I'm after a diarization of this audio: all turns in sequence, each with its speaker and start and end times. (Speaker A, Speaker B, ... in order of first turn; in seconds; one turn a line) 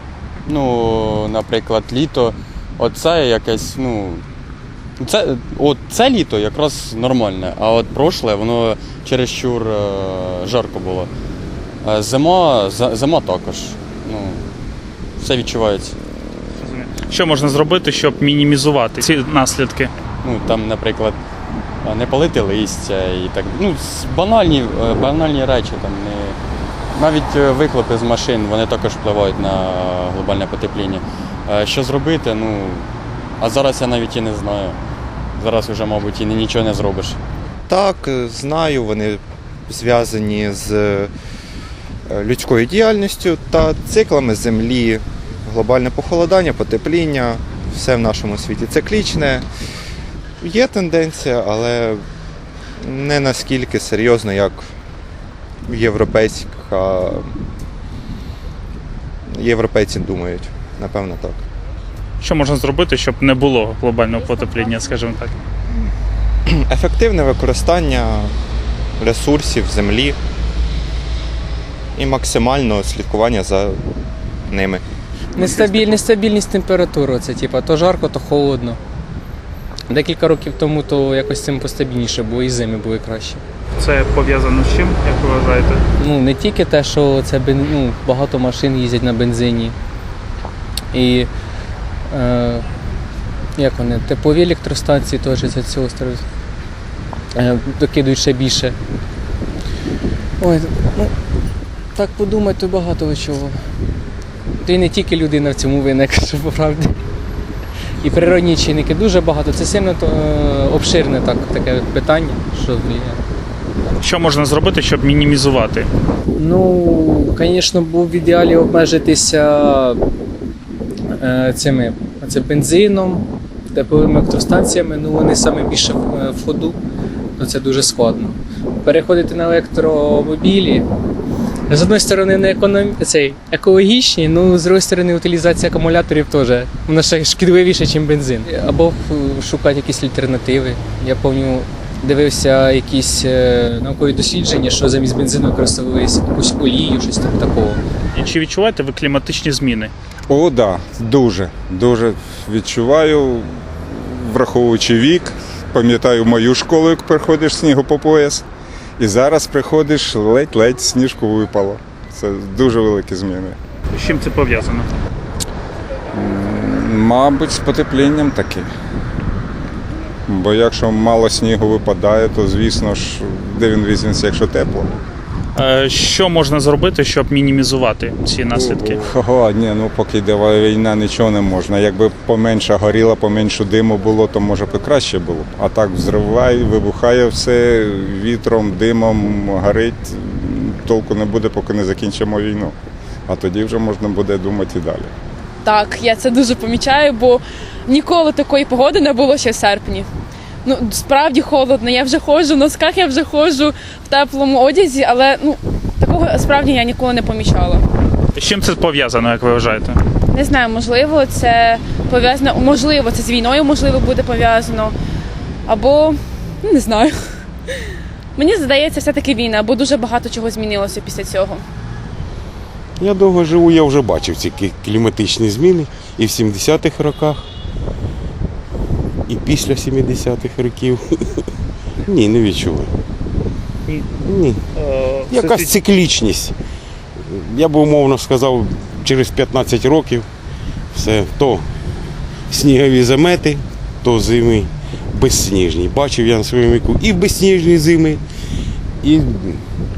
Speaker A: 0.5-4.2
Speaker A: 5.0-11.1
Speaker A: 11.8-14.4
Speaker A: 15.2-15.9
Speaker B: 16.6-19.9
Speaker A: 20.2-21.2
Speaker A: 21.8-26.4
Speaker A: 26.9-32.9
Speaker A: 33.4-34.8
Speaker A: 35.4-37.2
Speaker C: 37.7-41.1
Speaker C: 42.1-49.5
Speaker C: 50.4-52.0
Speaker C: 52.8-54.7
Speaker C: 55.7-57.3
Speaker C: 59.3-61.4
Speaker B: 62.2-65.3
Speaker C: 66.5-68.3
Speaker C: 69.0-70.2
Speaker C: 72.0-73.8
Speaker C: 74.5-74.8
Speaker D: 75.3-78.8
Speaker D: 79.9-83.4
Speaker B: 83.8-85.8
Speaker D: 86.0-89.8
Speaker D: 90.9-91.3
Speaker D: 92.1-92.7
Speaker D: 93.5-96.2
Speaker D: 97.3-98.8
Speaker D: 100.4-101.1
Speaker D: 101.9-103.6
Speaker D: 104.6-106.9
Speaker D: 108.0-113.2
Speaker B: 114.0-115.9
Speaker D: 116.4-120.0
Speaker D: 121.1-126.8
Speaker D: 127.4-130.8
Speaker D: 131.7-147.8
Speaker B: 148.1-149.9
Speaker E: 150.3-158.4
Speaker E: 159.0-163.6
Speaker B: 163.9-164.9
Speaker E: 166.1-168.7
Speaker E: 170.3-174.9
Speaker B: 175.5-179.0
Speaker E: 178.6-195.1
Speaker F: 195.6-200.1
Speaker F: 200.6-207.9
Speaker B: 208.3-210.0
Speaker F: 210.3-215.0
Speaker F: 215.7-221.6
Speaker G: 223.0-227.4
Speaker G: 229.3-231.5
Speaker G: 232.0-232.9
Speaker G: 234.2-234.6
Speaker G: 235.3-236.5
Speaker G: 237.2-240.2
Speaker G: 240.9-241.7
Speaker G: 242.5-248.2
Speaker G: 249.0-249.6